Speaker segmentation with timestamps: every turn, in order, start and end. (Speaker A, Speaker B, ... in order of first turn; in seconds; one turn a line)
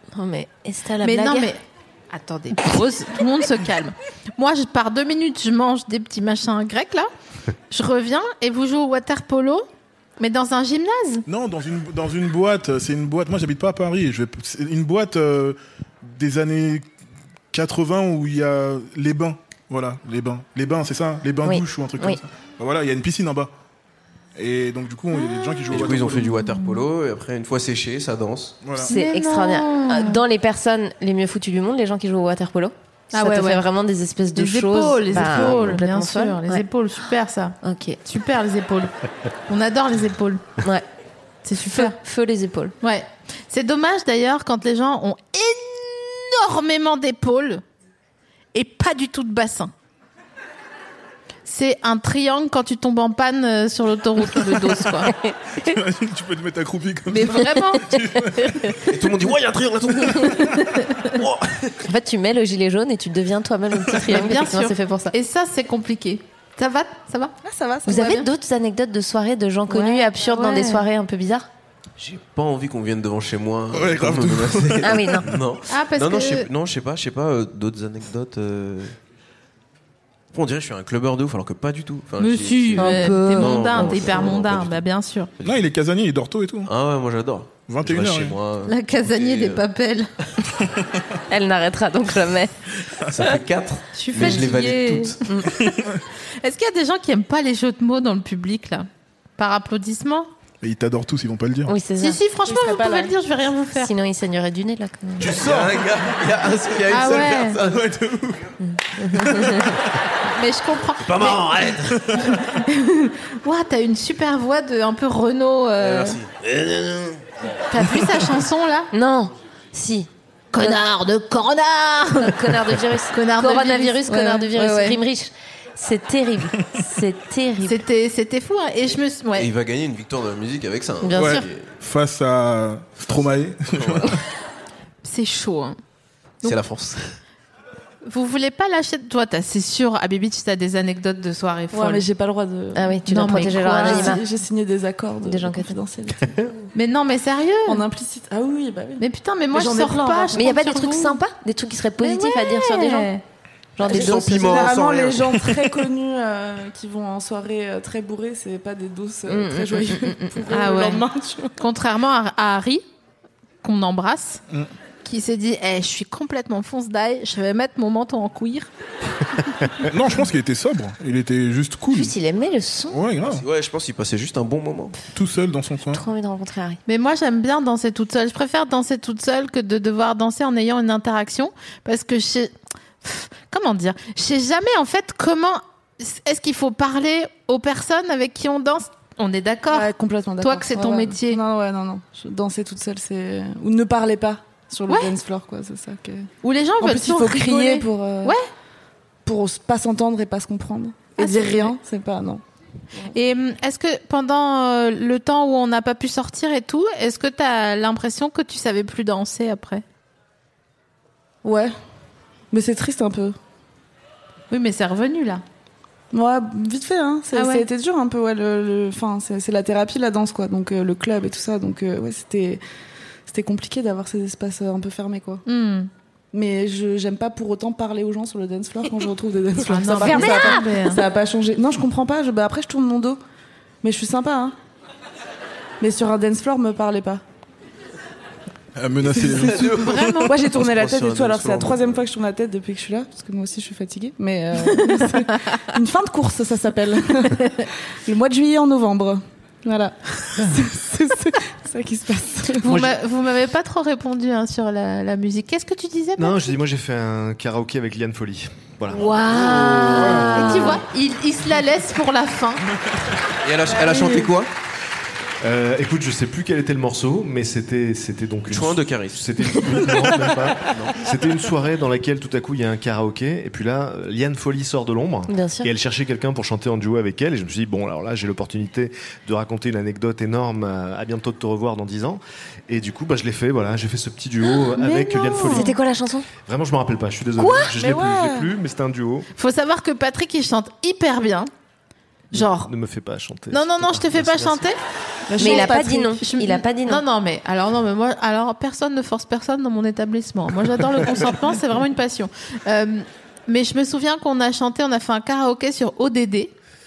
Speaker A: 0.1-1.5
Speaker B: 1.0-7.1
Speaker B: 7.7-9.7
Speaker B: 10.2-11.2
Speaker C: 11.3-16.8
Speaker C: 17.5-23.5
Speaker A: 21.4-22.2
Speaker C: 24.4-26.4
Speaker D: 25.7-28.6
Speaker C: 28.6-28.9
Speaker B: 28.8-30.2
Speaker A: 28.8-36.6
Speaker B: 33.1-33.6
Speaker B: 34.3-38.9
Speaker D: 35.2-35.5
Speaker A: 37.6-38.0
Speaker B: 39.5-40.4
Speaker A: 40.6-40.9
Speaker B: 41.4-42.0
Speaker A: 41.6-42.7
Speaker B: 42.8-47.6
Speaker B: 48.5-49.7
Speaker B: 51.5-55.1
Speaker A: 55.0-55.8
Speaker C: 55.6-58.9
Speaker B: 57.1-57.9
Speaker A: 58.5-58.7
Speaker D: 58.8-60.6
Speaker A: 60.1-60.7
Speaker D: 61.1-61.8
Speaker A: 61.8-65.1
Speaker B: 64.0-67.3
Speaker E: 67.4-68.1
Speaker A: 67.8-71.5
Speaker B: 67.9-68.2
Speaker B: 69.7-70.8
Speaker D: 72.0-78.9
Speaker C: 73.7-75.3
Speaker A: 74.8-75.3
Speaker B: 75.7-76.5
Speaker D: 80.3-84.8
Speaker B: 82.2-85.3
Speaker A: 82.8-84.3
Speaker D: 85.4-85.7
Speaker C: 85.4-86.7
Speaker D: 86.7-89.6
Speaker C: 87.7-88.4
Speaker B: 88.7-90.1
Speaker A: 91.3-92.5
Speaker C: 93.0-93.4
Speaker D: 93.1-95.2
Speaker B: 93.9-95.8
Speaker A: 94.2-94.5
Speaker B: 96.4-100.3
Speaker C: 100.6-101.7
Speaker A: 101.7-102.2
Speaker B: 102.0-103.9
Speaker E: 102.5-103.1
Speaker A: 103.7-105.4
Speaker D: 105.2-107.9
Speaker C: 105.3-105.8
Speaker B: 106.9-107.6
Speaker C: 107.6-108.5
Speaker A: 108.6-109.8
Speaker C: 109.2-109.6
Speaker B: 110.2-111.5
Speaker D: 111.0-112.1
Speaker C: 112.0-112.4
Speaker B: 112.2-116.2
Speaker D: 115.8-117.3
Speaker B: 117.7-118.9
Speaker A: 118.9-120.8
Speaker B: 120.5-122.3
Speaker A: 122.2-127.8
Speaker B: 123.1-125.0
Speaker B: 127.6-129.5
Speaker D: 129.3-131.7
Speaker A: 131.0-131.4
Speaker C: 131.1-134.2
Speaker D: 133.1-134.2
Speaker B: 135.0-135.8
Speaker D: 136.4-137.2
Speaker B: 138.1-142.0
Speaker E: 141.7-146.2
Speaker A: 142.7-144.2
Speaker B: 143.1-144.2
Speaker A: 145.2-145.8
Speaker B: 146.7-147.8
Speaker E: 147.7-149.0
Speaker B: 149.0-151.2
Speaker A: 149.5-153.1
Speaker E: 149.6-150.2
Speaker B: 152.0-153.2
Speaker A: 153.8-154.7
Speaker D: 153.8-155.5
Speaker E: 153.9-161.5
Speaker A: 159.3-160.4
Speaker B: 160.5-161.0
Speaker B: 161.6-162.8
Speaker B: 163.6-164.4
Speaker B: 165.0-168.7
Speaker C: 169.8-172.1
Speaker A: 171.9-173.0
Speaker C: 172.9-173.4
Speaker D: 173.1-175.0
Speaker C: 175.1-176.0
Speaker A: 175.9-176.8
Speaker B: 176.9-191.4
Speaker E: 189.7-196.3
Speaker B: 196.4-198.4
Speaker E: 196.8-198.4
Speaker E: 199.2-202.4
Speaker B: 201.2-201.8
Speaker B: 203.1-209.8
Speaker E: 211.4-211.7
Speaker E: 212.5-213.4
Speaker B: 214.5-215.4
Speaker E: 216.1-222.6
Speaker B: 217.3-217.7
Speaker E: 223.2-225.4
Speaker B: 225.4-225.9
Speaker E: 226.3-233.2
Speaker B: 229.6-231.0
Speaker A: 230.0-230.7
Speaker E: 233.8-234.6
Speaker E: 235.8-237.2
Speaker C: 238.8-240.2
Speaker D: 239.1-242.0
Speaker B: 239.7-240.4
Speaker E: 240.2-252.9
Speaker B: 252.6-256.5
Speaker F: 256.2-259.1
Speaker A: 258.9-260.8
Speaker D: 259.3-260.3
Speaker C: 259.9-260.4
Speaker B: 260.2-262.6
Speaker D: 263.4-264.5
Speaker E: 263.7-264.3
Speaker F: 265.4-285.7
Speaker D: 268.5-269.9
Speaker D: 270.7-271.1
Speaker A: 275.3-275.7
Speaker A: 284.5-286.3
Speaker E: 285.3-285.7
Speaker F: 286.4-289.3
Speaker A: 287.4-287.7
Speaker E: 287.7-288.5
Speaker B: 289.4-291.5
Speaker B: 292.3-292.7
Speaker F: 292.3-294.6
Speaker B: 293.5-294.8
Speaker E: 295.3-296.2
Speaker A: 295.4-297.0
Speaker B: 295.4-306.5